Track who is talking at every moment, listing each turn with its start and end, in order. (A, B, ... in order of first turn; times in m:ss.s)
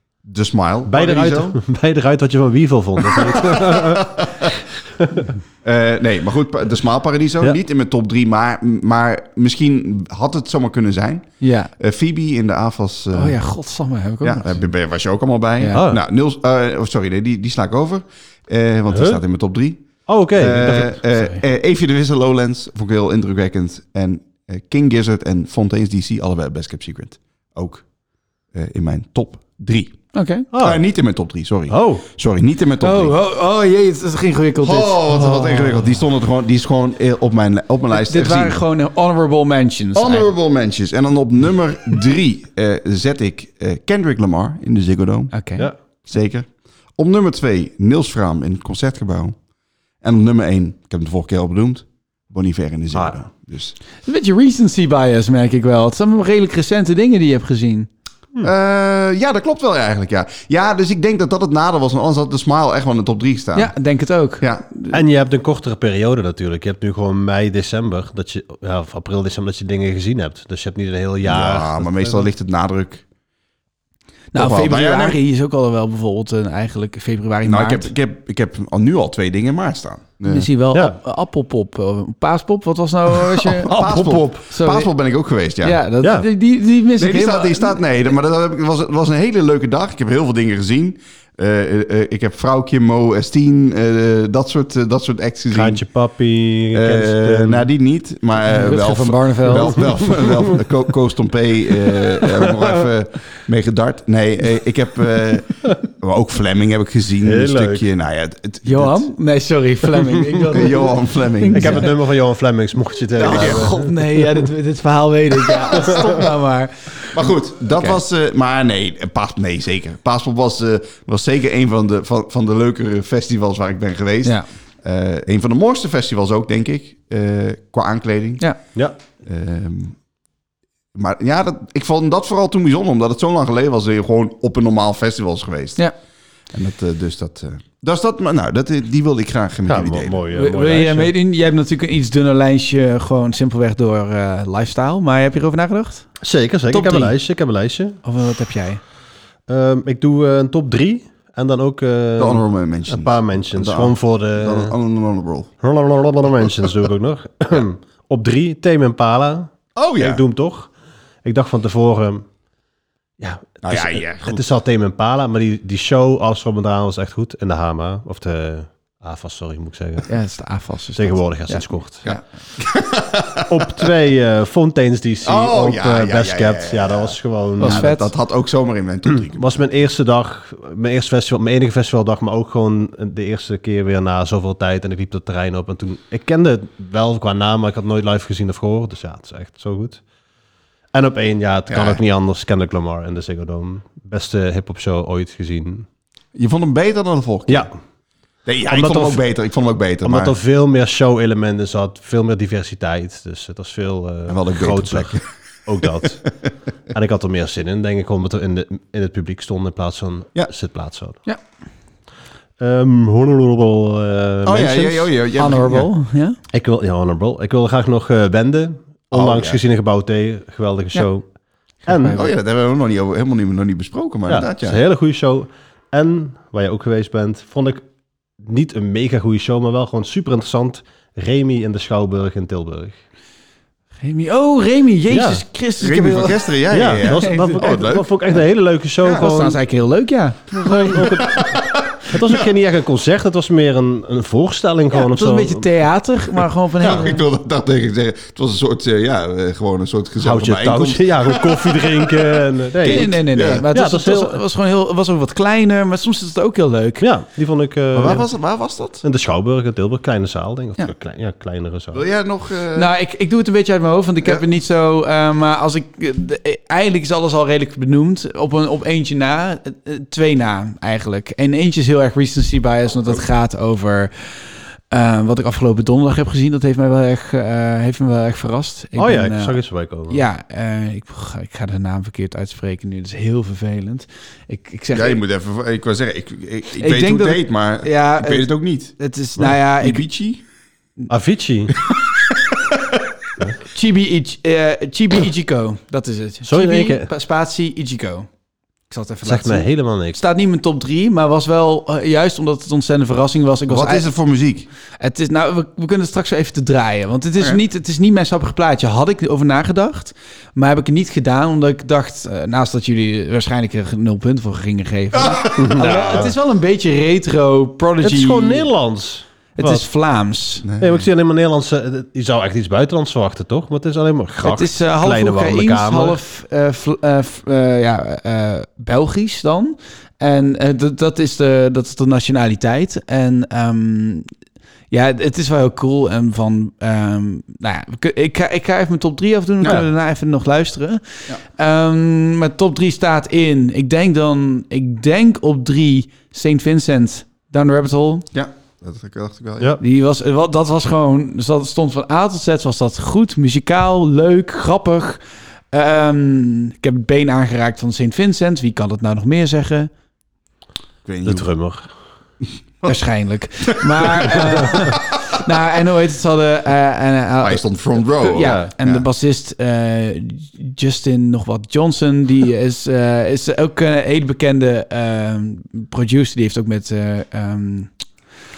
0:00.3-0:01.6 A
0:00.9-0:04.1 B
0:03.1-0:04.6 A
0:05.0-0:05.3 B
0:05.6-0:13.4 A
0:11.4-0:11.7 C
0:13.1-0:14.6 C
0:14.2-0:27.8 A
0:15.7-0:16.0 B
0:18.9-0:19.2 B
0:20.1-0:21.0 B
0:21.2-0:21.4 C
0:28.5-0:33.2 A
0:30.1-0:30.5 C
0:30.5-0:30.8 B
0:31.7-0:32.0 B
0:32.8-0:35.0 C
0:34.6-0:38.6 A
0:35.1-0:35.8 B
0:37.9-0:40.3 C
0:40.0-0:45.3 A
0:45.3-0:45.7 C
0:46.1-0:49.4 A
0:50.0-0:53.8 A
0:54.0-0:57.9 C
0:58.4-1:03.7 A
1:03.6-1:05.0 C
1:04.4-1:04.6 A
1:04.9-1:12.3 B
1:11.2-1:13.0 A
1:14.3-1:17.9 C
1:14.4-1:15.2 A
1:17.4-1:20.5 A
1:20.3-1:24.9 C
1:23.4-1:25.8 A
1:25.6-1:28.0 C
1:26.0-1:26.3 B
1:27.0-1:35.8 A
1:35.5-1:37.7 B
1:36.7-1:49.1 A
1:38.5-1:40.1 C
1:47.2-1:47.9 B
1:48.6-1:51.9 C
1:50.5-1:51.9 A
1:51.5-1:54.4 B
1:53.2-1:53.7 A
1:53.3-1:57.2 C
1:55.7-1:56.2 A
1:57.1-2:08.4 A
1:57.7-1:58.0 C
2:09.2-2:10.0 A
2:10.9-2:15.8 A
2:16.5-2:20.2 A
2:19.7-2:21.1 B
2:20.3-2:26.1 C
2:26.2-2:28.0 B
2:26.7-2:27.1 C
2:28.0-2:28.8 C
2:29.5-2:34.7 B
2:32.2-2:35.5 A
2:35.6-2:40.7 B
2:36.5-2:36.8 A
2:39.8-2:40.2 A
2:41.2-2:42.2 B
2:43.2-2:50.1 B
2:43.6-2:44.4 A
2:50.1-2:51.7 C
2:51.0-2:52.1 B
2:52.0-2:53.9 A
2:53.5-2:57.9 B
2:55.2-2:59.6 A
2:57.6-2:58.1 C
2:59.3-3:10.0 B
3:10.9-3:15.9 B
3:11.7-3:12.0 A
3:16.4-3:17.7 A
3:17.5-3:17.8 B
3:18.5-3:20.4 A
3:18.7-3:19.2 B
3:20.0-3:26.4 B
3:24.3-3:25.3 A
3:26.9-3:31.2 B
3:32.6-3:35.1 B
3:34.4-3:35.9 A
3:35.4-3:36.4 C
3:36.5-3:41.3 B
3:39.1-3:39.6 A
3:41.9-3:42.2 B
3:41.9-3:42.3 C
3:42.2-3:44.8 A
3:44.3-3:47.8 B
3:48.4-3:53.0 B
3:54.0-3:56.5 C
3:55.1-3:55.4 B
3:55.8-3:58.1 A
3:56.7-3:59.6 B
3:57.0-3:57.8 C
3:59.0-3:59.3 A
3:59.2-4:01.0 C
4:00.6-4:01.5 B
4:00.6-4:02.4 A
4:02.0-4:05.7 B
4:04.9-4:07.2 C
4:06.8-4:13.6 A
4:10.2-4:14.4 B
4:12.9-4:17.1 C
4:17.0-4:18.3 B
4:18.0-4:19.0 A
4:19.0-4:22.0 B
4:21.9-4:22.9 A
4:22.8-4:34.4 C
4:34.9-4:45.2 C
4:39.0-4:40.2 B
4:44.9-4:50.4 A
4:46.8-4:50.0 C
4:51.1-4:51.8 B
4:51.9-4:52.3 A
4:53.7-4:58.3 C
4:56.5-4:57.1 B
4:58.9-5:04.1 C
4:59.2-5:00.2 B
5:03.7-5:04.7 A
5:05.0-5:18.7 C
5:15.1-5:16.3 A
5:15.6-5:16.3 B
5:18.0-5:19.8 B
5:19.6-5:20.6 C
5:20.6-5:21.1 A
5:20.8-5:26.2 B
5:24.4-5:34.3 C
5:34.9-5:48.3 C
5:48.3-5:49.8 A
5:49.8-5:55.2 C
5:55.7-5:59.9 C
6:01.0-6:01.5 A
6:01.2-6:01.9 B
6:02.8-6:17.9 C
6:03.7-6:05.0 A
6:07.4-6:09.1 A
6:08.4-6:08.7 B